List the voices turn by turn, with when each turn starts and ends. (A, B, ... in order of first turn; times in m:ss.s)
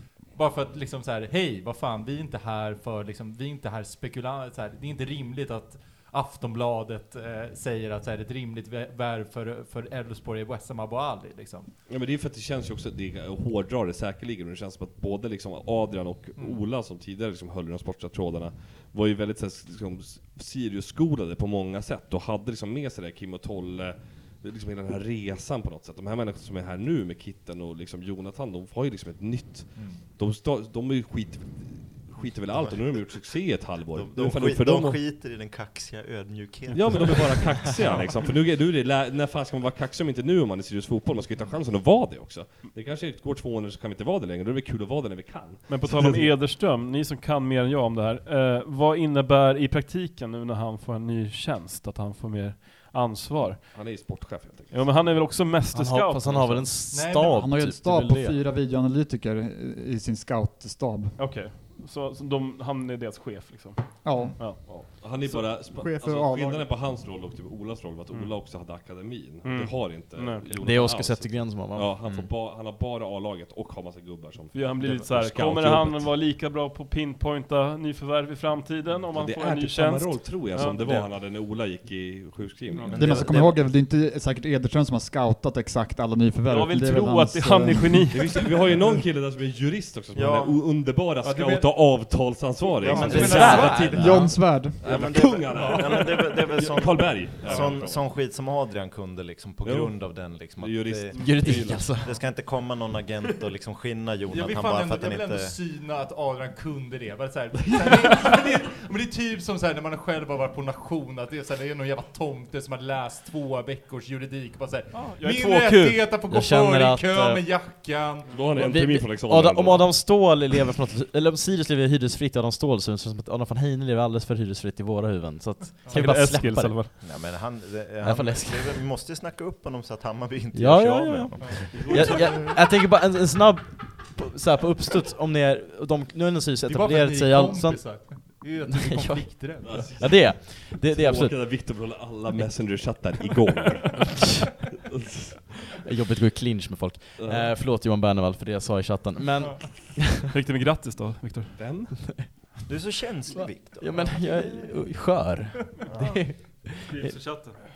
0:00.3-0:11.7 A
0:11.9-0:35.0 B
0:29.8-0:30.0 A
0:33.9-0:38.1 C
0:36.7-0:46.3 B
0:45.7-0:53.9 D
0:53.7-0:54.8 B
0:54.7-0:56.8 D
0:55.7-0:58.4 E
0:56.9-0:57.4 A
0:57.2-1:01.2 F
1:01.2-1:04.8 D
1:04.0-1:04.4 F
1:04.5-1:16.1 B
1:05.2-1:06.7 F
1:09.4-1:10.6 D
1:10.6-1:12.3 E
1:14.5-1:21.1 D
1:19.1-1:23.5 B
1:22.7-1:23.0 D
1:22.9-1:23.6 C
1:22.9-1:28.2 F
1:26.4-1:28.5 D
1:28.1-1:38.0 B
1:30.1-1:30.6 C
1:31.2-1:31.7 A
1:32.8-1:34.0 A
1:32.8-1:34.0 C
1:32.9-1:34.4 E
1:33.5-1:34.9 F
1:34.8-1:45.6 C
1:35.6-1:35.8 A
1:39.6-1:41.9 B
1:41.1-1:42.1 E
1:44.3-1:58.3 A
1:54.9-1:55.8 D
1:55.4-1:57.4 E
1:58.3-2:00.1 B
1:58.6-2:06.9 E
2:05.9-2:06.9 D
2:07.0-2:12.3 C
2:08.0-2:08.8 E
2:10.5-2:21.6 E
2:11.4-2:12.3 A
2:16.6-2:19.9 A
2:19.6-2:24.2 B
2:24.9-2:25.4 B
2:25.8-2:30.3 E
2:27.2-2:27.5 B
2:30.3-2:31.6 D
2:31.6-2:32.0 B
2:32.7-2:34.7 C
2:33.3-2:37.1 E
2:35.9-2:36.2 C
2:36.9-2:37.5 D
2:37.0-2:37.5 A